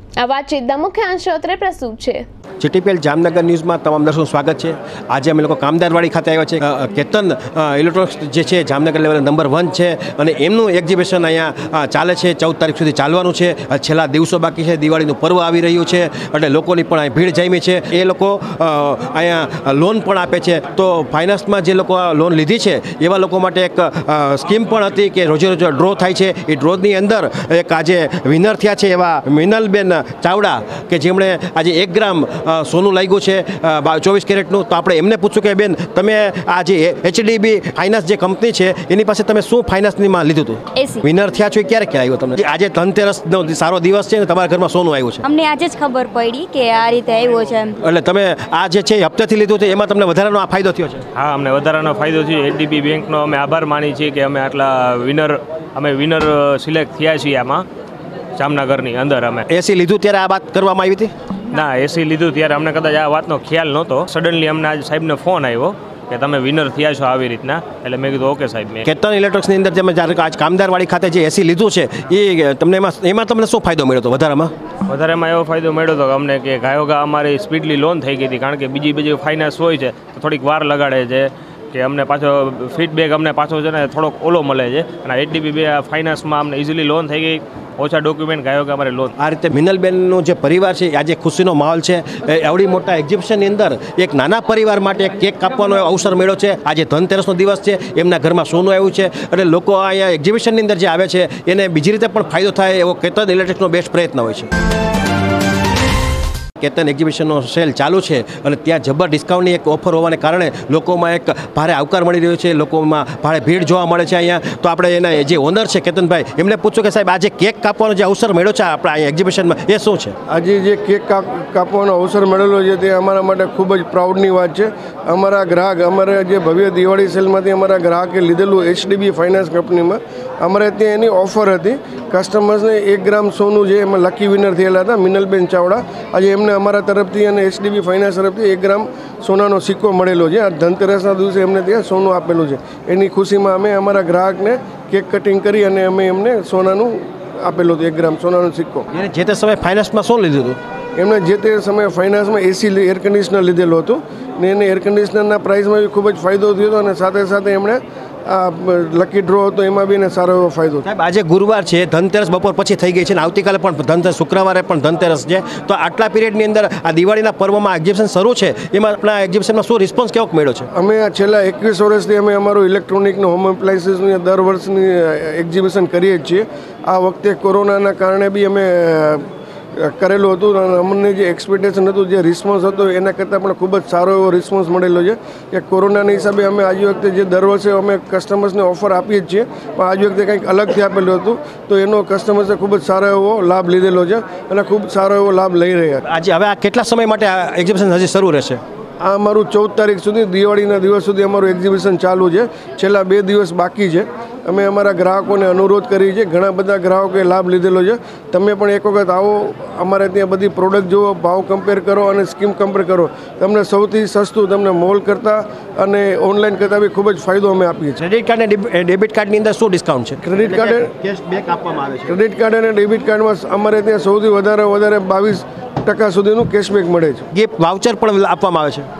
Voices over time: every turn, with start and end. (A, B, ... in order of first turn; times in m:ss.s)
0:00.2-0:02.2 A
0:02.6-0:45.2 B
0:40.8-0:41.0 C
0:45.2-0:47.7 C
0:47.8-0:51.0 B
0:51.1-0:57.6 D
0:58.4-0:59.4 D
0:59.5-1:01.1 B
1:01.5-1:08.8 D
1:08.8-1:14.5 B
1:14.9-1:29.1 D
1:29.2-1:44.5 B
1:46.6-2:00.2 B
2:00.3-2:28.9 E
2:28.9-2:30.6 B
2:31.0-2:40.8 E
2:40.8-2:50.7 B
2:50.7-3:16.0 E
3:16.0-3:18.6 B
3:19.0-3:38.0 E
3:38.0-3:42.2 B
3:40.2-3:40.9 E
3:42.1-3:47.2 E
3:47.3-3:48.9 B